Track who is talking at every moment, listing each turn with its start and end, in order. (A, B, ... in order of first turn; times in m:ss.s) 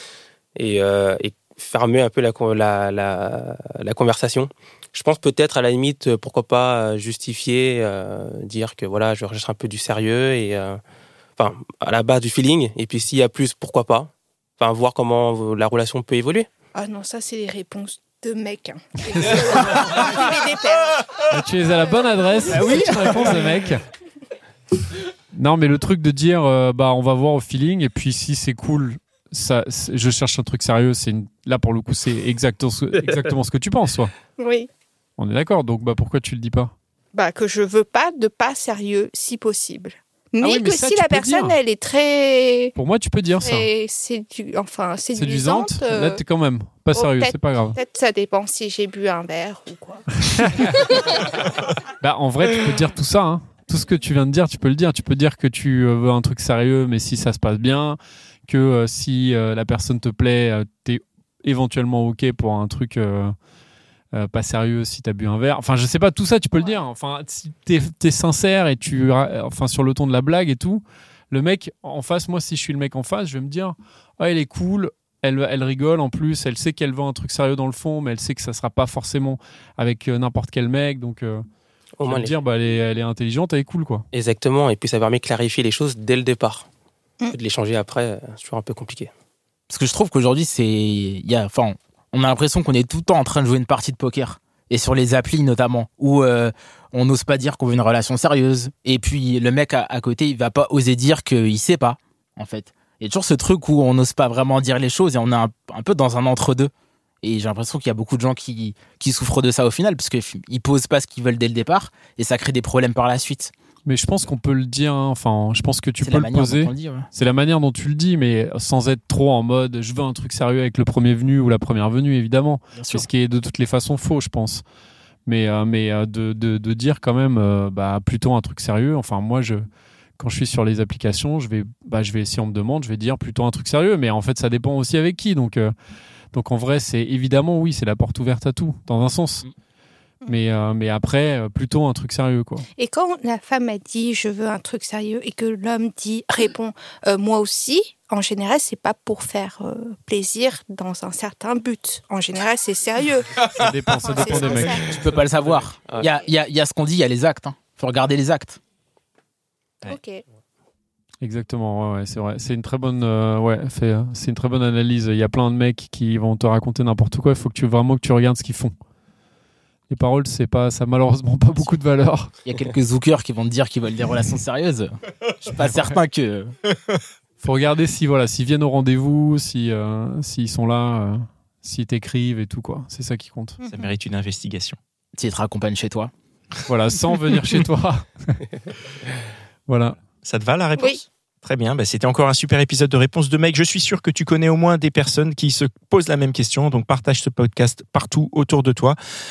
0:00.6-0:10.8 A
0:11.4-0:16.5 A
0:16.7-0:21.0 B
0:19.0-0:20.2 C
0:21.2-0:23.8 C
0:22.5-0:23.3 D
0:25.3-0:34.1 C
0:34.4-0:34.7 B
0:35.2-0:36.7 C
0:37.1-0:42.7 B
0:40.4-0:41.6 C
0:42.7-0:43.7 C
0:43.4-0:46.2 B
0:45.1-0:47.8 C
0:46.9-0:50.2 B
0:50.1-0:51.0 C
0:52.0-1:03.3 C
1:04.1-1:21.4 C
1:22.0-1:22.3 A
1:22.0-1:24.0 C
1:24.1-1:26.7 A
1:27.3-1:29.1 A
1:29.7-1:46.7 D
1:47.2-1:53.5 D
1:53.8-2:04.6 C
1:56.0-1:57.1 D
2:02.7-2:03.1 D
2:05.2-2:09.6 C
2:10.2-2:15.7 C
2:16.3-2:19.4 C
2:20.2-2:22.6 C
2:22.8-2:35.0 B
2:33.5-2:34.9 C
2:34.6-2:38.6 D
2:39.8-2:40.2 B
2:41.2-2:48.7 C
2:49.9-2:52.3 C
2:52.4-2:56.5 D
2:55.5-2:56.0 C
2:57.4-3:03.6 C
3:03.6-3:04.8 E
3:05.1-3:06.1 D
3:06.6-3:08.5 C
3:09.7-3:10.0 C
3:10.2-3:19.0 E